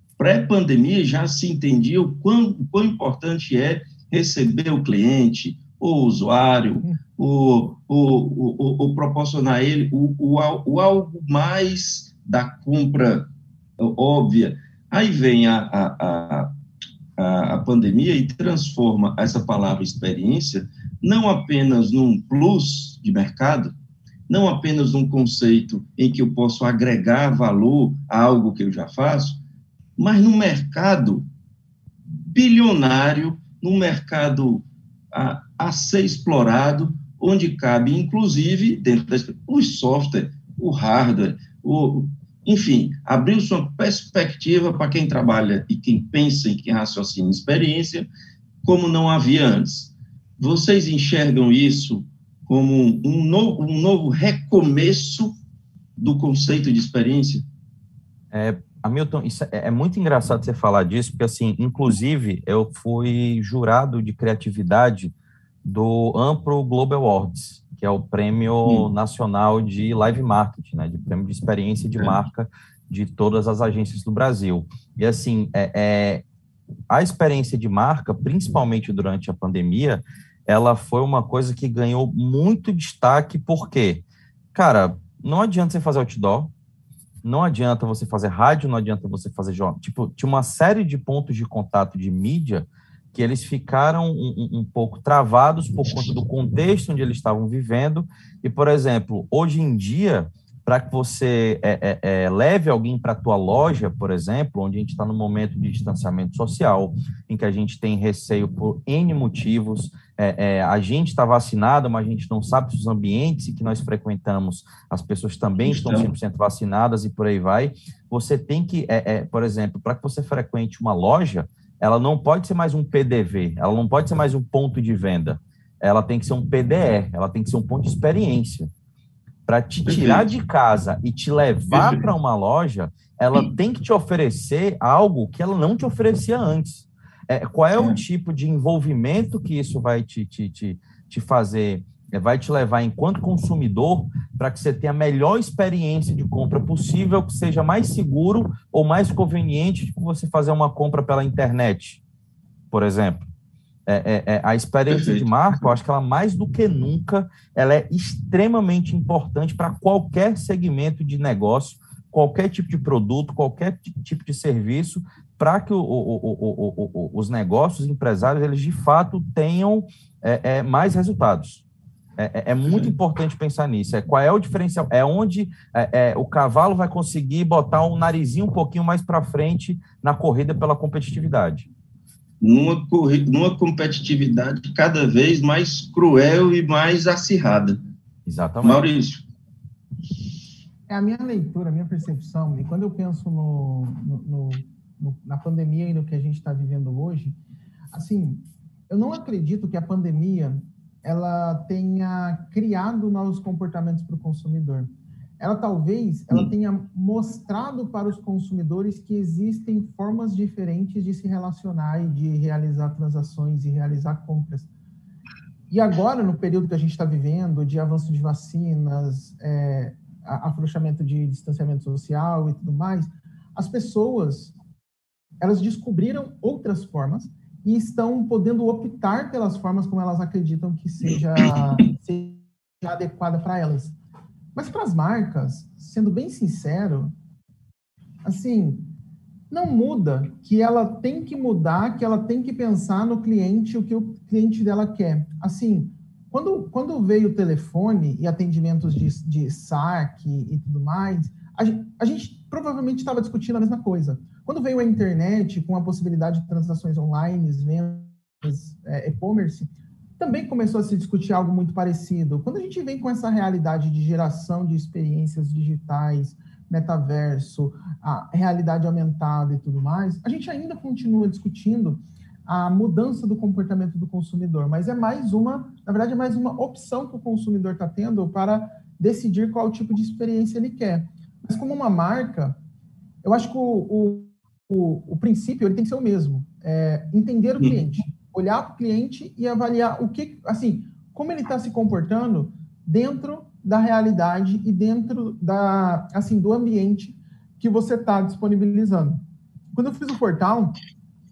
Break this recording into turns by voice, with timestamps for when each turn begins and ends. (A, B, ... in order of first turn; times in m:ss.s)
0:00.2-0:13.3 A
0:13.8-0:16.5 A
0:17.2-0:23.7 A
0:24.3-0:29.4 A
0:30.0-0:31.3 A
0:32.2-0:48.1 A
0:48.6-0:55.4 A
0:56.0-0:57.4 A
0:58.3-1:16.2 B
1:16.9-1:26.5 B
1:27.2-2:08.7 B
1:55.6-1:56.1 A
2:09.5-2:32.0 B
2:09.8-2:10.3 A
2:11.7-2:12.1 A
2:32.7-2:33.3 B
2:33.8-2:51.6 B
2:34.9-2:35.7 A
2:52.2-3:01.7 B
2:52.6-2:52.9 A
3:02.4-3:07.8 A
3:08.2-3:08.9 B
3:08.6-3:09.2 A
3:10.9-3:17.4 C
3:17.9-3:34.7 C
3:35.7-3:44.5 C
3:45.4-3:53.9 C
3:54.5-3:57.1 C
3:58.2-3:58.9 C
3:59.5-4:42.6 C
4:43.2-4:59.2 C
4:47.6-4:47.8 A
4:59.7-5:00.8 C